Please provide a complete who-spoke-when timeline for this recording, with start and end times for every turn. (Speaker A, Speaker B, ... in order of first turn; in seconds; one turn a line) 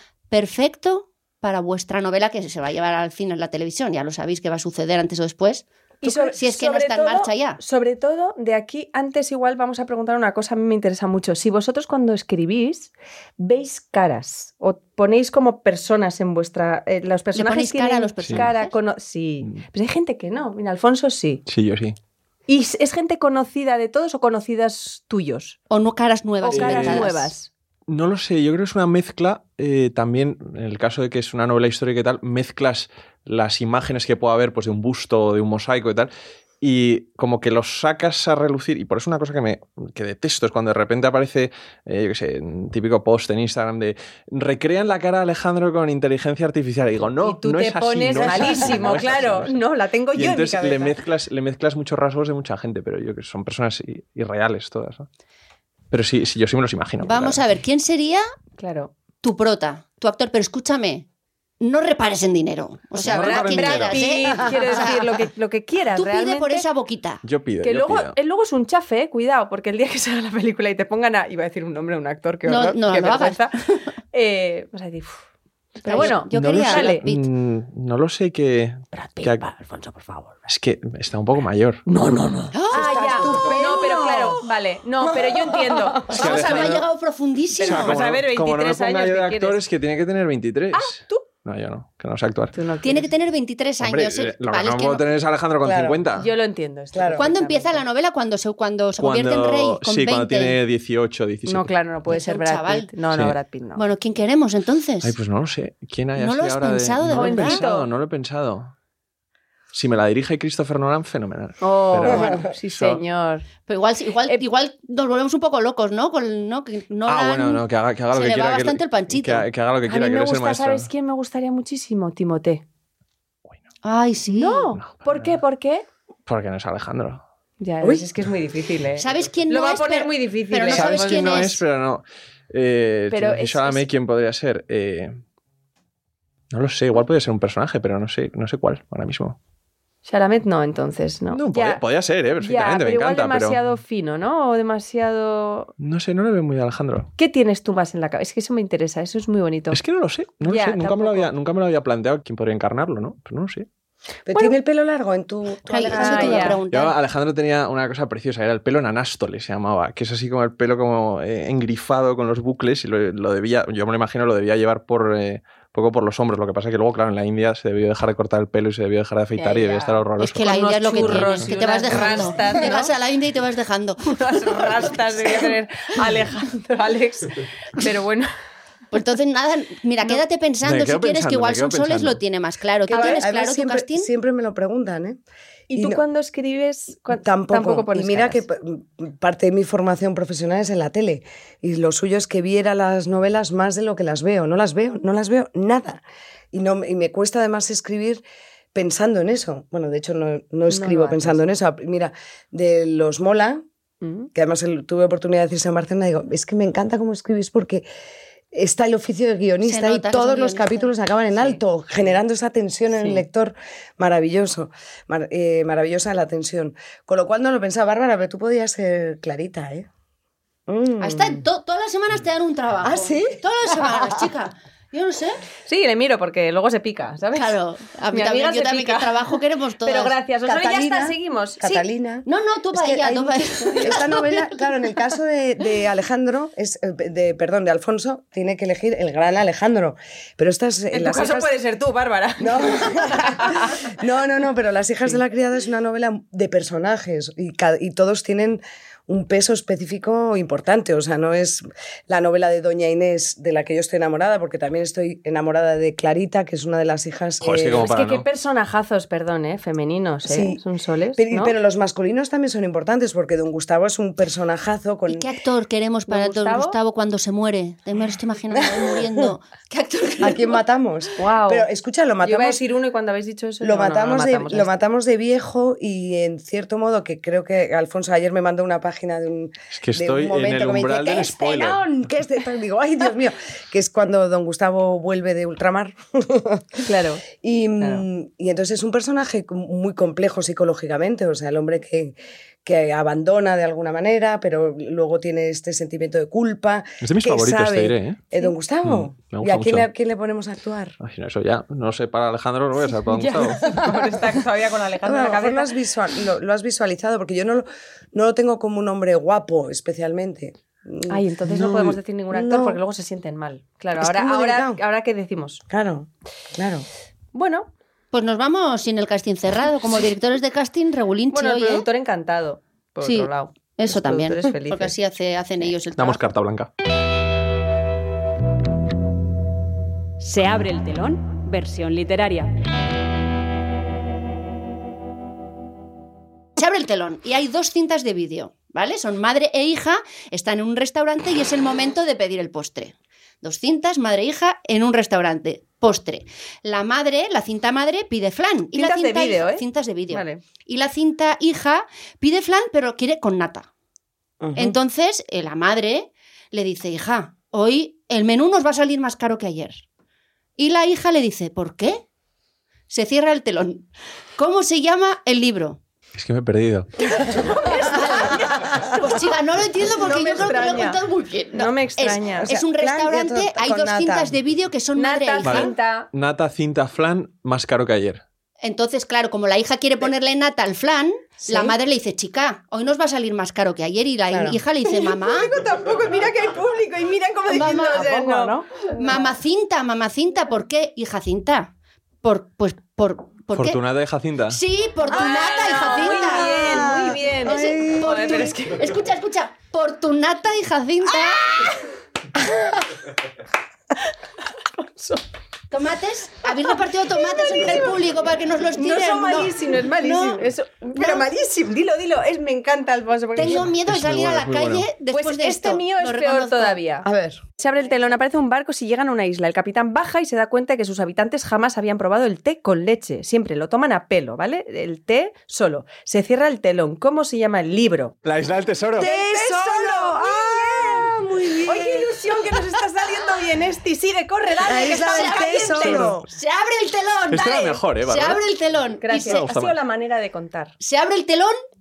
Speaker A: 0.3-7.6
Speaker B: 6.0-21.4
Speaker A: 17.4-18.8
Speaker C: 21.5-22.0
Speaker B: 22.5-25.6
Speaker A: 25.7-27.3
Speaker B: 26.4-27.5
Speaker C: 26.5-27.1
Speaker C: 27.9-36.1
Speaker C: 36.6-49.6
Speaker B: 47.1-51.0
Speaker C: 50.1-55.1
Speaker C: 55.9-57.4
Speaker A: 57.0-58.2
Speaker B: 58.6-58.9
Speaker A: 59.2-61.1
Speaker A: 61.6-65.1
Speaker B: 63.0-66.7
Speaker C: 63.0-64.0
Speaker A: 65.9-67.2
Speaker C: 67.2-68.2
Speaker B: 67.6-73.5
Speaker A: 72.5-73.9
Speaker B: 74.1-75.2
Speaker B: 75.8-77.0
Speaker A: 75.8-77.3
Speaker C: 76.0-79.6
Speaker B: 79.0-80.3
Speaker C: 80.5-81.8
Speaker B: 81.9-86.8
Speaker A: 82.5-83.4
Speaker D: 82.7-84.5
Speaker D: 85.0-86.0
Speaker C: 86.1-86.8
Speaker A: 86.1-88.0
Speaker C: 87.6-92.6
Speaker B: 87.6-89.6
Speaker B: 90.7-91.2
Speaker B: 92.5-93.1
Speaker A: 92.8-95.0
Speaker C: 93.8-96.3
Speaker D: 95.6-96.0
Speaker B: 96.2-97.8
Speaker D: 96.9-97.3
Speaker A: 97.2-100.6
Speaker C: 99.0-101.7
Speaker B: 101.5-103.8
Speaker A: 102.1-102.9
Speaker C: 103.1-103.4
Speaker A: 103.8-105.2
Speaker C: 105.0-108.7
Speaker A: 106.2-107.6
Speaker B: 107.1-107.9
Speaker C: 109.7-113.0
Speaker B: 111.6-113.5
Speaker D: 112.1-112.4
Speaker A: 113.7-119.5
Speaker C: 117.1-120.9
Speaker B: 119.9-122.6
Speaker A: 123.8-124.7
Speaker B: 124.3-125.8
Speaker C: 124.8-125.4
Speaker C: 126.3-127.2
Speaker B: 127.6-131.5
Speaker D: 127.8-128.1
Speaker A: 129.0-131.6
Speaker C: 130.7-135.2
Speaker B: 133.1-133.9
Speaker C: 136.5-139.4
Speaker B: 140.1-141.8
Speaker C: 141.3-143.6
Speaker B: 142.4-145.7
Speaker C: 145.8-147.1
Speaker B: 147.2-149.8
Speaker C: 149.7-153.7
Speaker B: 150.4-151.3
Speaker D: 154.3-156.6
Speaker A: 155.7-157.0
Speaker B: 155.9-156.6
Speaker C: 156.7-171.5
Speaker B: 169.3-172.9
Speaker A: 170.2-174.4
Speaker B: 174.1-178.3
Speaker A: 178.9-184.1
Speaker C: 180.6-182.2
Speaker D: 182.9-185.2
Speaker B: 182.9-183.2
Speaker B: 185.7-188.4
Speaker D: 185.7-186.0
Speaker D: 187.1-198.2
Speaker D: 198.7-203.7
Speaker B: 200.7-201.4
Speaker B: 204.0-204.3
Speaker D: 204.3-207.8
Speaker D: 208.5-219.9
Speaker A: 209.6-210.9
Speaker B: 211.3-212.1
Speaker B: 213.0-213.2
Speaker D: 220.7-221.4
Speaker A: 221.0-225.4
Speaker D: 222.8-224.3
Speaker B: 225.7-227.6
Speaker A: 227.3-230.2
Speaker B: 228.1-231.8
Speaker D: 230.4-241.5
Speaker A: 232.3-234.6
Speaker B: 240.9-243.9
Speaker D: 242.4-257.9
Speaker C: 257.4-258.3
Speaker B: 257.8-261.5
Speaker D: 260.2-260.6
Speaker D: 261.1-265.3
Speaker A: 265.1-270.6
Speaker B: 266.1-266.8
Speaker D: 268.6-269.0
Speaker D: 270.2-272.6
Speaker B: 271.2-271.7
Speaker B: 272.2-274.7
Speaker D: 273.6-301.0
Speaker C: 279.7-281.8
Speaker B: 286.8-287.3
Speaker C: 297.0-298.2
Speaker C: 298.8-299.9
Speaker C: 301.0-303.7
Speaker B: 303.1-305.7
Speaker D: 303.7-304.1
Speaker D: 305.0-312.8
Speaker B: 311.1-315.6
Speaker D: 313.9-314.8
Speaker D: 315.7-316.9
Speaker B: 317.3-317.7
Speaker A: 318.1-321.9
Speaker B: 321.3-324.9
Speaker A: 323.0-326.2
Speaker C: 326.0-326.7
Speaker E: 330.2-332.6
Speaker A: 336.6-353.7
Speaker B: 348.7-350.4
Speaker D: 354.4-354.8
Speaker A: 354.6-359.8
Speaker A: 360.6-362.0
Speaker A: 362.9-365.8
Speaker C: 366.1-366.9
Speaker B: 367.2-369.2
Speaker A: 367.6-375.7
Speaker B: 369.9-371.0
Speaker B: 371.5-372.5
Speaker D: 372.4-374.4
Speaker B: 375.0-376.1
Speaker C: 375.4-378.2
Speaker A: 378.6-385.5
Speaker D: 381.4-381.8
Speaker D: 384.3-384.6
Speaker B: 384.9-389.2
Speaker A: 387.5-391.7
Speaker D: 387.6-388.6
Speaker A: 392.2-393.8
Speaker C: 393.5-394.6
Speaker A: 394.5-401.5
Speaker B: 395.1-398.9
Speaker D: 396.2-398.5
Speaker B: 404.8-405.2
Speaker A: 405.7-411.2
Speaker B: 407.1-408.0
Speaker B: 408.7-413.7
Speaker A: 413.4-416.8
Speaker C: 413.4-414.9
Speaker B: 415.1-428.2
Speaker D: 417.0-417.4
Speaker C: 428.2-429.1
Speaker D: 429.0-432.3
Speaker B: 429.0-436.1
Speaker D: 434.6-436.3
Speaker A: 434.8-439.5
Speaker C: 437.3-438.4
Speaker B: 439.0-440.8
Speaker C: 439.2-439.8
Speaker A: 440.8-441.6